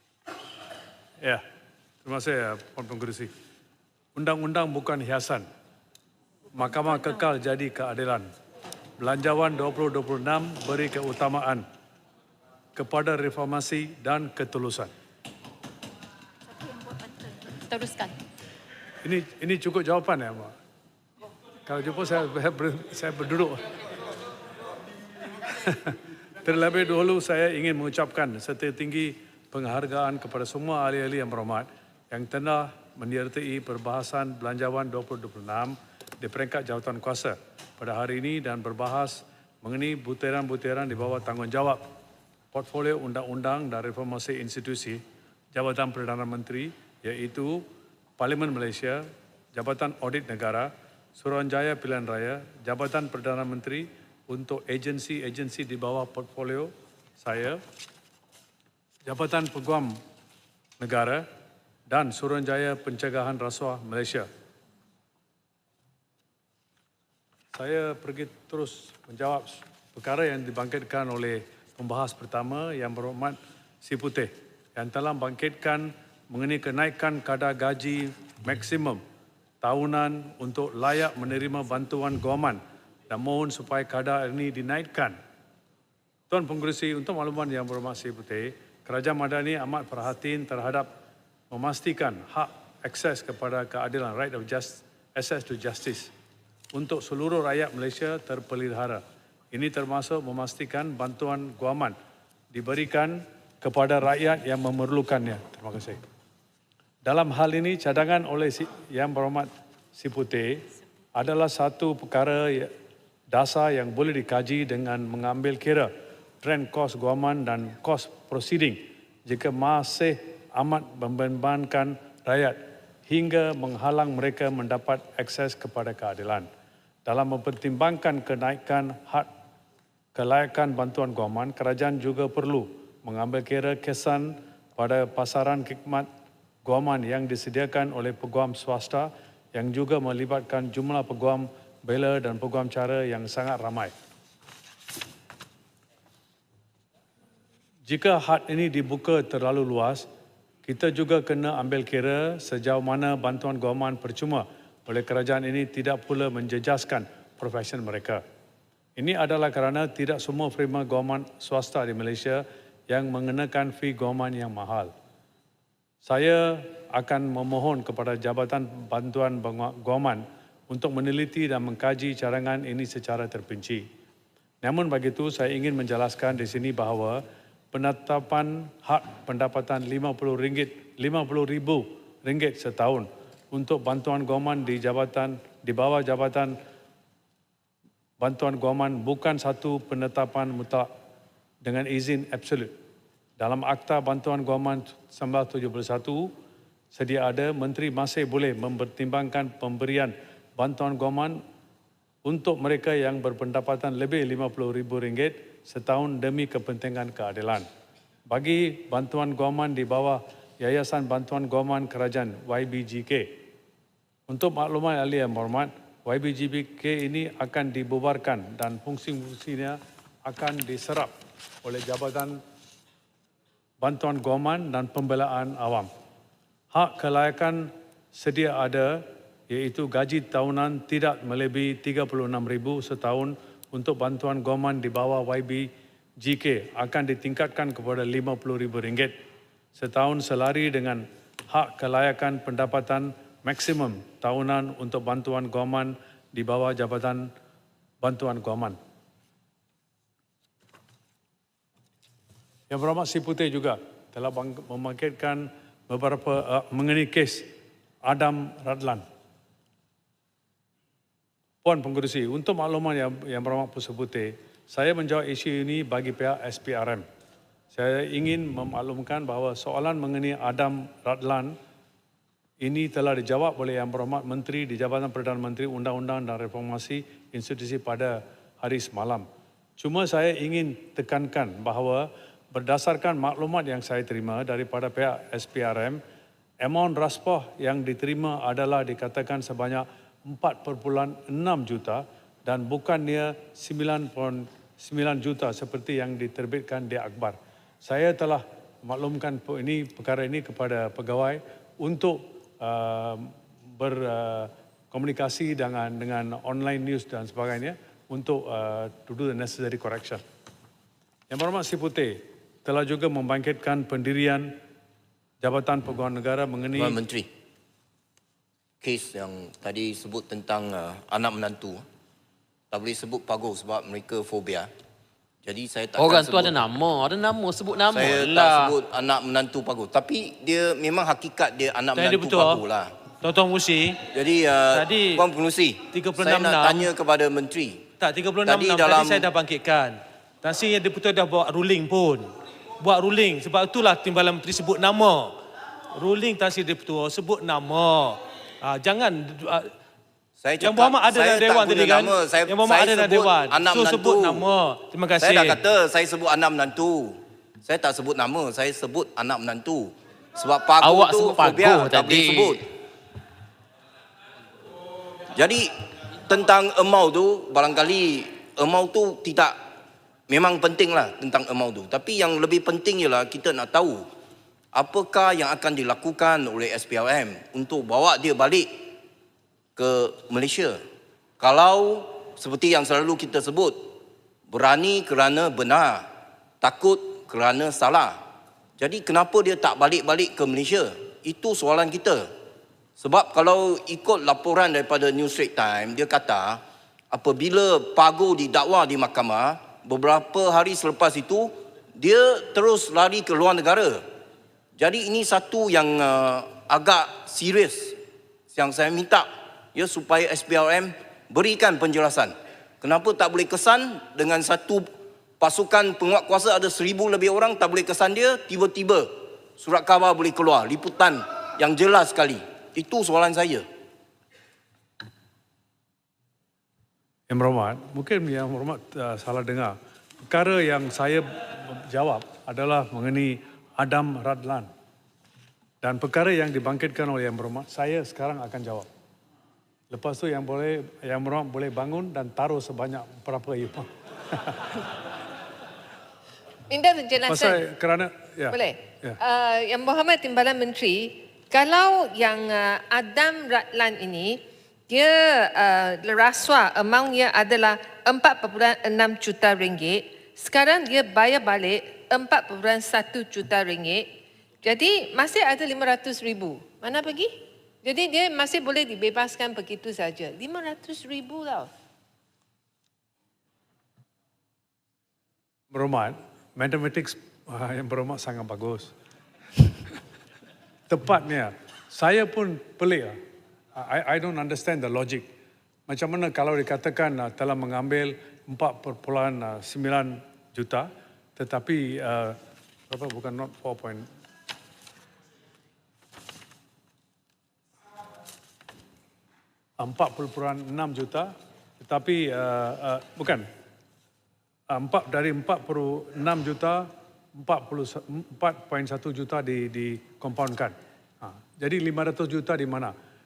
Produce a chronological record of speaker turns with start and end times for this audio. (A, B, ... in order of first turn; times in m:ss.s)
0:02.0-0:03.3 A
0:04.2-0:05.5 A
0:06.5-0:08.3 A
0:09.0-0:11.6 A
0:12.8-0:14.9 A
0:17.6-0:18.1 B
0:19.0-0:20.5 A
0:21.6-0:23.8 A
0:25.5-0:41.8 A
0:42.5-0:45.0 A
0:45.5-0:47.6 A
0:48.2-0:49.0 A
0:49.5-0:57.6 A
0:59.0-0:59.9 A
1:00.8-1:01.2 A
1:01.9-1:04.3 A
1:07.5-1:19.0 A
1:19.6-1:25.2 A
1:26.3-1:30.9 A
1:31.5-1:36.1 A
1:36.7-1:42.0 A
1:42.5-1:46.0 A
1:47.0-1:50.6 A
1:51.1-1:52.7 A
1:53.3-1:55.9 A
1:56.4-2:06.5 A
2:07.0-2:09.3 A
2:10.1-2:16.1 A
2:16.6-2:23.9 A
2:27.9-2:30.1 A
2:30.6-2:38.2 A
2:39.0-2:44.9 A
2:46.0-2:53.8 A
2:54.6-2:57.2 A
2:57.7-3:06.5 A
3:08.2-3:10.8 A
3:11.6-3:12.7 A
3:13.4-3:16.3 A
3:16.9-3:21.4 A
3:22.2-3:27.7 A
3:28.3-3:33.3 A
3:34.3-3:42.4 A
3:43.8-3:45.9 A
3:46.7-3:55.7 A
3:56.2-3:59.1 A
3:59.8-4:07.3 A
4:08.0-4:08.8 A
4:12.7-4:17.5 A
4:18.0-4:19.0 A
4:21.6-4:27.0 A
4:27.7-4:31.5 A
4:32.6-4:39.2 A
4:39.8-4:46.0 A
4:46.6-5:10.2 A
5:11.3-5:14.5 A
5:15.4-5:17.0 A
5:16.8-5:17.3 C
5:18.8-5:21.8 C
5:22.7-5:24.7 C
5:25.4-5:26.6 C
5:26.0-5:28.7 B
5:27.9-5:32.9 C
5:32.0-5:32.6 D
5:33.2-5:34.0 D
5:34.1-5:37.8 C
5:34.7-5:35.2 D
5:35.9-5:36.9 D
5:38.0-5:45.4 D
5:38.4-5:39.3 C
5:46.0-5:49.7 D
5:50.4-5:54.5 C
5:50.6-5:55.6 D
5:55.2-6:02.6 C
6:00.8-6:02.6 B
6:05.3-6:05.7 C
6:06.2-6:09.6 C
6:10.3-6:14.0 C
6:14.7-6:18.7 C
6:19.8-6:20.8 C
6:21.4-6:23.9 C
6:24.5-6:26.0 C
6:26.6-6:28.2 C
6:28.8-6:32.3 C
6:33.0-6:44.0 C
6:44.8-6:48.0 C
6:48.5-6:54.9 C
6:55.4-7:03.6 C
7:07.3-7:09.8 A
7:10.3-7:14.7 A
7:15.8-7:18.9 A
7:19.9-7:24.8 A
7:26.7-7:27.6 E
7:27.3-7:29.2 A
7:28.5-7:44.1 E
7:44.6-7:47.3 E
7:47.8-7:51.7 E
7:55.7-7:58.9 A
8:00.9-8:03.2 A
8:03.8-8:05.3 A
8:05.9-8:12.4 A
8:12.9-8:14.1 A
8:19.8-8:23.5 A
8:24.7-8:32.9 A